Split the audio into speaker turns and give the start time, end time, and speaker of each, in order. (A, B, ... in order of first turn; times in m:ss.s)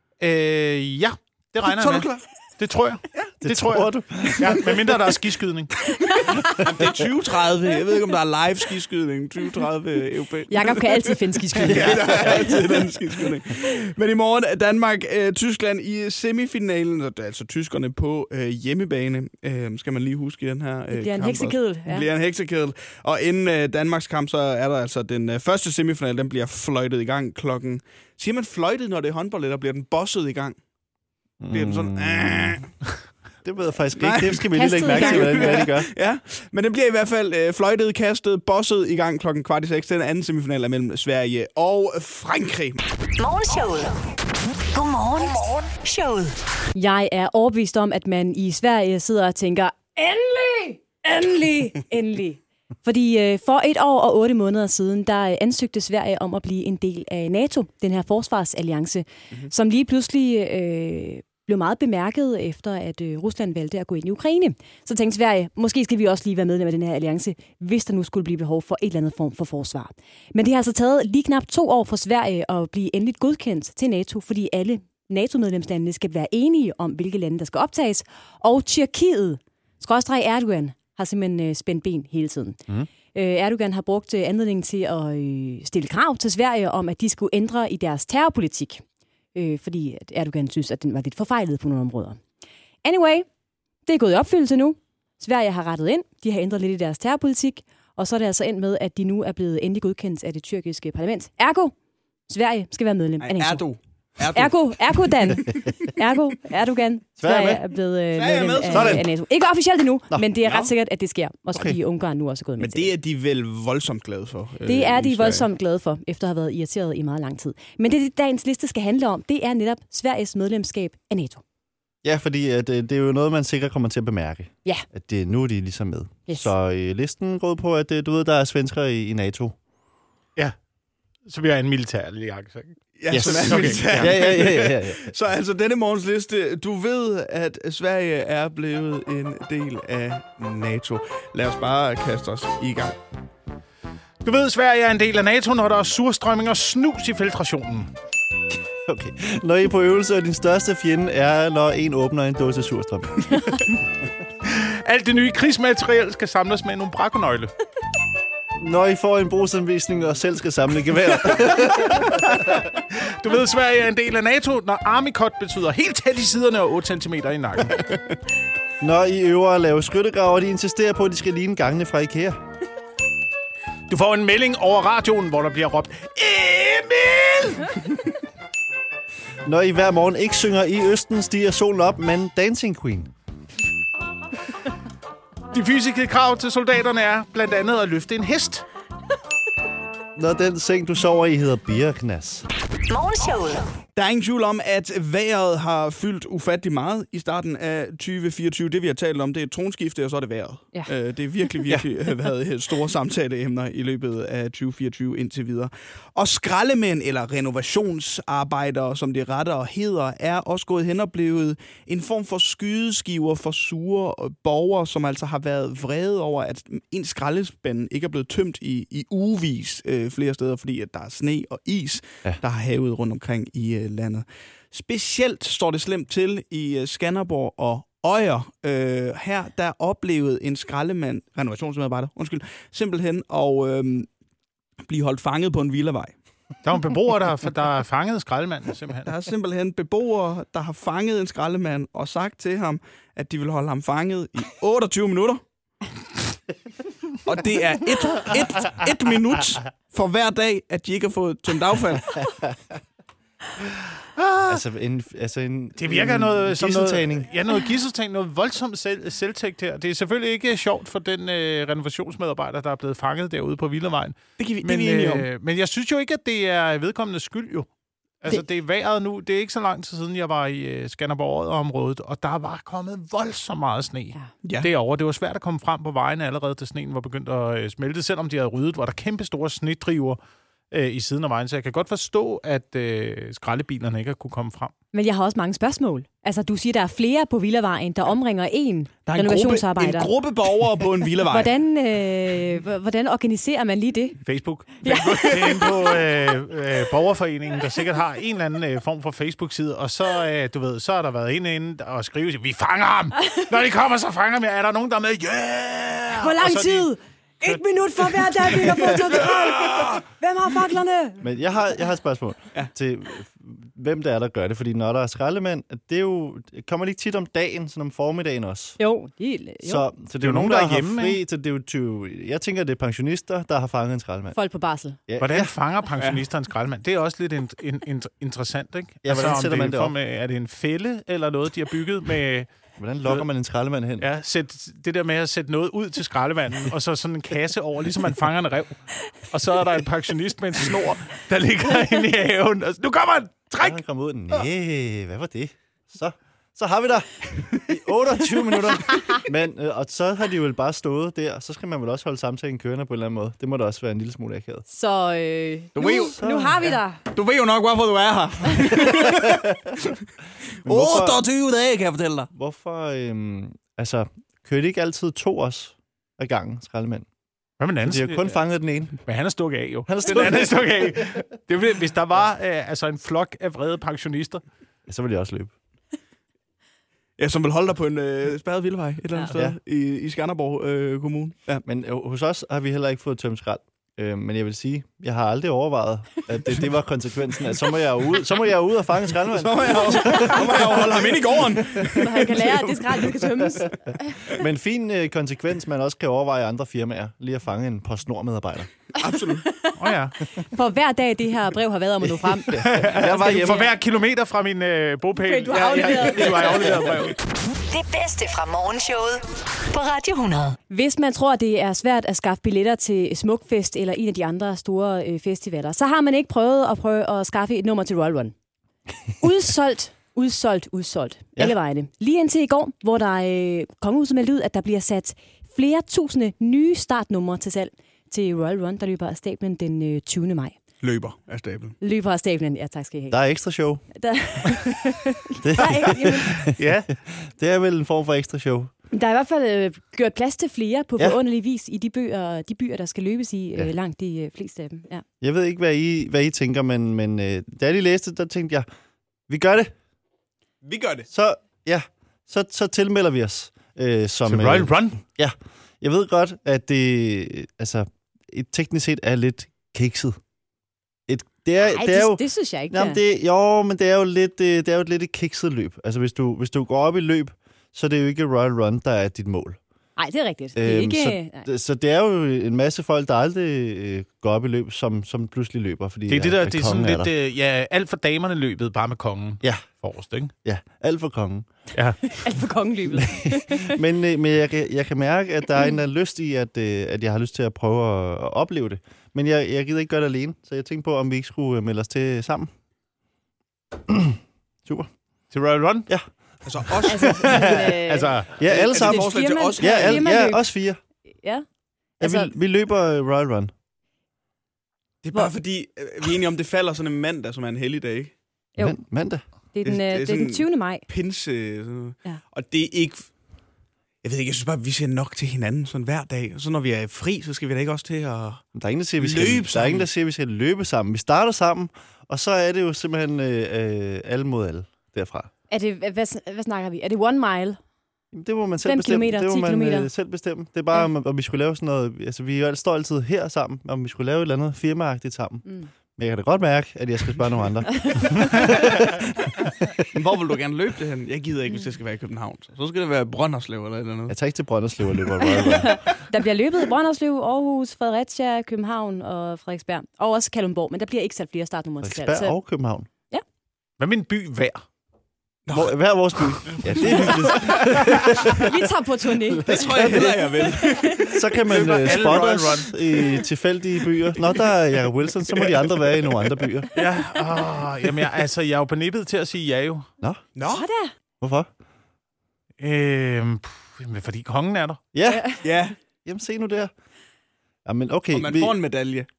0:00.2-0:05.9 A
0:01.6-0:02.2 B
0:03.4-0:04.7 C
0:05.9-0:30.6 B
0:06.1-0:06.5 D
0:10.5-0:12.7 D
0:11.7-0:12.1 C
0:20.9-0:22.1 D
0:31.4-0:32.6 C
0:31.5-0:32.7 B
0:33.4-0:35.9 C
0:34.0-0:42.8 B
0:34.5-0:35.7 D
0:43.2-0:44.0 E
0:44.7-0:46.4 E
0:46.8-1:22.6 D
1:23.1-1:28.8 D
1:29.4-1:32.2 D
1:32.8-1:33.3 D
1:33.9-1:41.7 D
1:42.3-1:43.6 D
1:43.2-1:45.9 B
1:44.3-1:52.9 D
1:47.2-1:47.6 C
1:48.1-1:49.0 B
1:48.7-1:49.1 C
1:50.4-1:50.7 B
1:51.5-1:51.8 C
1:52.6-1:55.5 B
1:54.6-2:01.4 D
2:02.0-2:09.6 C
2:11.3-2:14.2 A
2:13.0-2:23.0 B
2:13.1-2:15.1 C
2:24.2-2:27.9 A
2:28.9-2:33.6 C
2:34.4-2:37.5 A
2:38.6-2:42.5 C
2:42.4-2:47.8 A
2:48.8-2:52.4 C
2:53.9-2:58.0 A
2:59.4-3:03.1 C
3:05.5-3:08.6 A
3:10.2-3:12.5 C
3:12.9-3:13.7 E
3:14.0-3:54.1 B
3:54.8-3:56.2 B
3:56.6-3:59.1 A
3:59.0-4:05.4 B
4:07.2-4:12.3 B
4:14.2-4:14.6 A
4:14.5-4:17.3 C
4:15.8-4:27.7 A
4:24.4-4:25.3 B
4:28.2-4:40.2 A
4:34.4-4:34.7 B
4:40.7-4:44.7 A
4:44.9-4:50.1 D
4:49.1-4:51.5 B
4:51.2-4:54.2 D
4:54.2-5:06.9 A
4:54.8-4:55.8 D
5:06.2-5:11.2 D
5:08.2-5:08.6 A
5:09.2-5:10.0 B
5:11.2-5:18.8 C
5:18.8-5:19.9 D
5:19.6-5:24.4 C
5:20.2-5:21.2 A
5:24.4-5:25.0 D
5:25.1-5:25.5 C
5:25.2-5:32.5 A
5:29.0-5:29.9 C
5:32.8-5:34.1 C
5:34.0-5:43.8 A
5:43.6-5:54.6 C
5:54.7-5:57.0 D
5:55.8-5:56.2 B
5:55.8-5:56.8 C
5:57.0-6:00.0 B
5:58.9-5:59.4 C
6:00.6-6:01.2 C
6:00.6-6:02.3 B
6:02.3-6:07.1 C
6:07.6-6:08.4 A
6:07.8-6:09.0 C
6:09.0-6:14.4 A
6:09.9-6:10.9 C
6:14.9-6:15.5 C
6:17.2-6:21.6 B
6:19.3-6:19.6 C
6:21.6-6:31.2 C
6:29.3-6:33.2 B
6:31.8-6:34.2 D
6:34.3-6:38.7 C
6:39.0-6:39.5 B
6:39.0-6:43.7 D
6:39.8-6:40.2 A
6:42.3-6:43.7 C
6:42.6-6:47.2 A
6:45.2-6:46.9 D
6:47.7-6:50.6 E
6:50.7-6:58.3 D
6:59.2-7:10.6 D
7:10.8-7:11.8 B
7:11.8-7:13.2 D
7:13.1-7:13.8 C
7:13.9-7:16.4 D
7:15.4-7:18.7 C
7:16.4-7:16.9 A
7:18.9-7:25.0 D
7:25.2-7:28.7 C
7:29.3-7:29.7 C
7:30.6-7:31.1 B
7:31.1-7:40.2 C
7:34.3-7:35.0 A
7:41.1-7:49.6 C
7:41.6-7:43.0 D
7:50.0-7:51.5 D
7:50.6-7:57.1 C
7:56.1-8:00.3 A
8:00.4-8:01.5 C
8:01.8-8:02.2 A
8:02.1-8:03.8 D
8:02.9-8:12.5 C
8:13.9-8:14.9 C
8:15.3-8:15.9 A
8:16.5-8:17.7 B
8:16.8-8:20.5 D
8:17.2-8:17.6 C
8:17.3-8:18.4 A
8:18.4-8:20.8 C
8:18.4-8:20.0 B
8:22.0-8:22.3 D
8:22.0-8:23.5 C
8:25.0-8:28.1 B
8:28.6-8:29.2 C
8:29.5-8:30.8 D
8:29.6-8:33.1 B
8:34.0-8:38.4 B
8:38.6-8:45.3 C
8:39.0-8:39.9 B
8:45.5-8:47.6 D
8:48.1-8:59.8 C
8:48.6-8:49.9 D
8:57.8-8:58.5 D
8:59.9-9:04.2 B
9:04.1-9:05.8 C
9:05.3-9:12.4 D
9:11.8-9:12.9 C
9:13.8-9:14.6 A
9:15.5-9:18.4 B
9:15.5-9:18.6 C
9:18.3-9:19.8 D
9:19.3-9:20.5 C
9:19.5-9:21.3 B
9:20.4-9:21.1 D
9:21.0-9:26.7 C
9:21.5-9:22.7 A
9:25.3-9:26.5 B
9:26.8-9:29.9 A
9:30.4-9:30.7 B
9:30.4-9:30.9 D
9:31.2-9:31.5 C
9:32.6-9:34.8 A
9:34.9-9:35.4 C
9:35.1-9:35.4 D
9:35.4-9:35.8 B
9:36.0-9:36.7 C
9:37.7-9:38.6 C
9:38.1-9:39.1 B